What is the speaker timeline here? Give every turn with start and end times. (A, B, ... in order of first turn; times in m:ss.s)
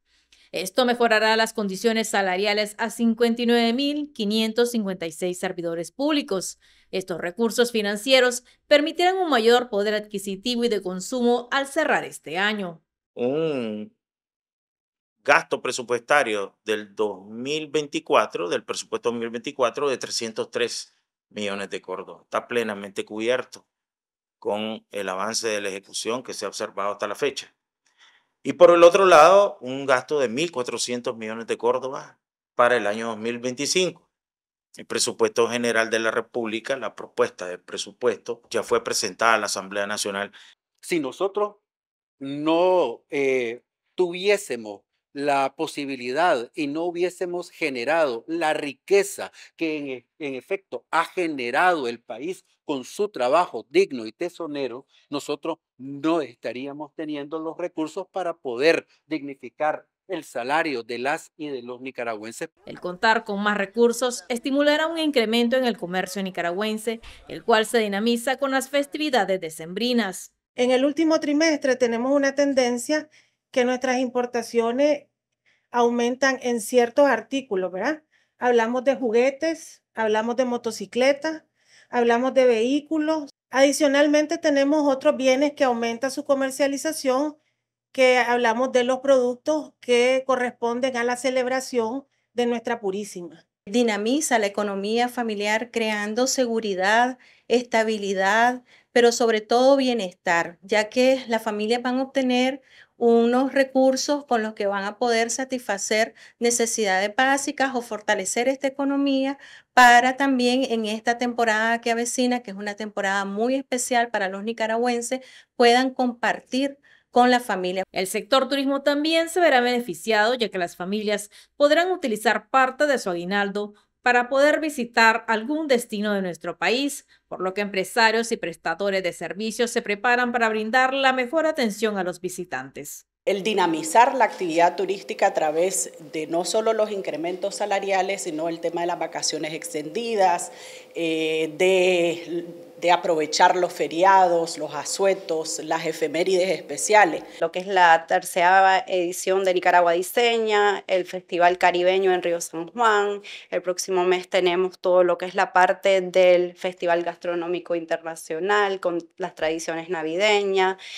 0:00.5-0:12.8 A
0:13.2-0:13.9 B
0:15.2-0:23.6 B
0:24.4-0:27.5 B
0:28.4-0:34.0 B
0:34.8-0:40.3 B
0:40.8-0:41.6 C
0:42.2-1:02.5 C
1:02.7-1:10.3 A
1:10.6-1:15.1 D
1:15.7-1:27.4 D
1:27.9-1:33.4 D
1:33.7-1:57.8 E
1:57.9-2:13.0 A
2:13.3-2:27.3 F
2:27.4-2:40.8 G